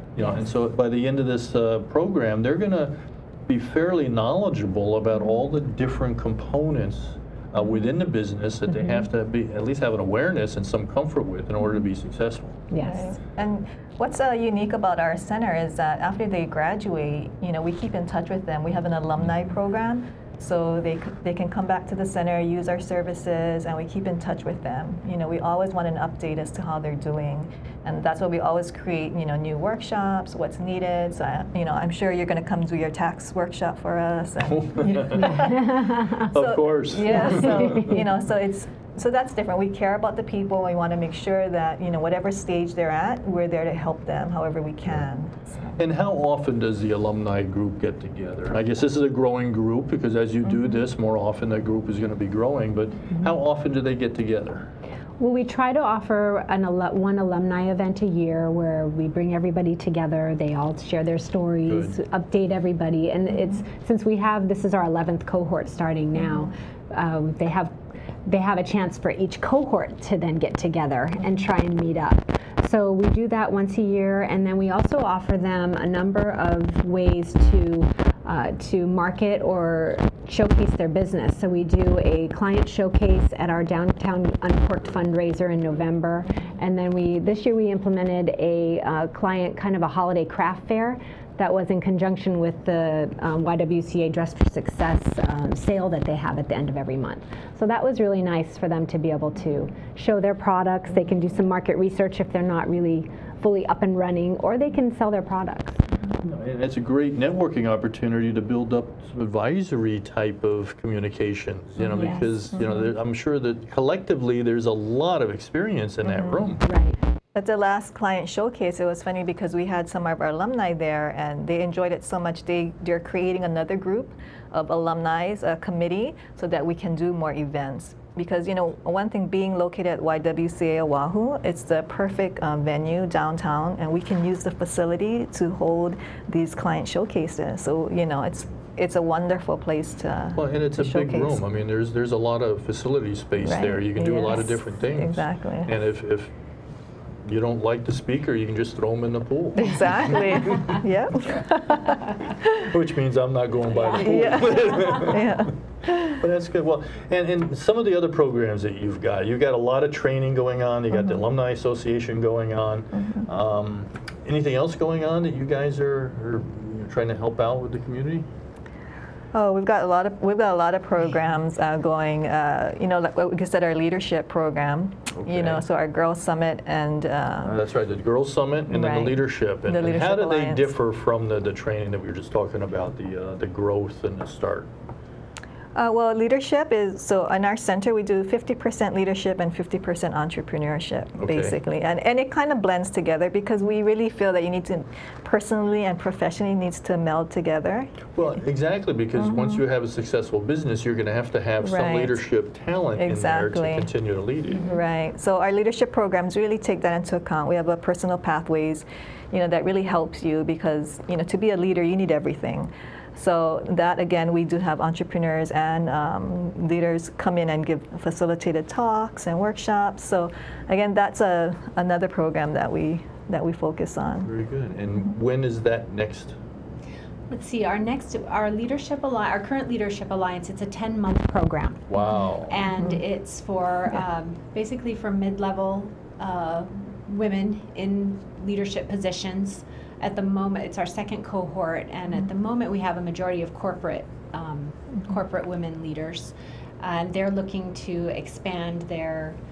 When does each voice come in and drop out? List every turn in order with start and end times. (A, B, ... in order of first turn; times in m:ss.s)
0:00.2-0:12.6 A
0:12.7-0:13.1 B
0:12.8-0:45.8 C
0:34.5-0:35.5 A
0:35.5-0:36.2 B
0:36.2-0:38.0 A
0:37.3-0:38.0 B
0:45.8-0:54.7 A
0:50.4-0:50.8 C
0:55.2-1:45.8 B
1:01.6-1:02.0 A
1:46.2-1:56.6 A
1:51.8-1:52.4 B
1:52.0-1:52.9 C
1:56.0-1:56.5 C
1:56.6-1:57.0 B
1:57.3-2:21.4 C
2:20.3-2:26.3 A
2:23.4-2:25.7 C
2:27.2-2:30.8 A
2:29.6-2:32.7 C
2:32.5-2:48.3 A
2:33.8-2:34.9 B
2:34.0-2:36.2 C
2:43.0-2:43.2 C
2:49.3-2:57.6 C
2:55.1-2:55.6 A
2:57.4-3:04.7 A
2:58.7-3:00.7 C
3:05.7-3:18.2 C
3:11.2-3:11.6 A
3:18.1-3:24.7 A
3:19.2-3:19.6 C
3:21.6-3:22.2 C
3:23.0-3:23.9 C
3:24.6-3:44.3 C
3:44.2-3:46.4 A
3:47.3-3:51.9 B
3:51.9-3:52.6 A
3:52.4-4:09.4 B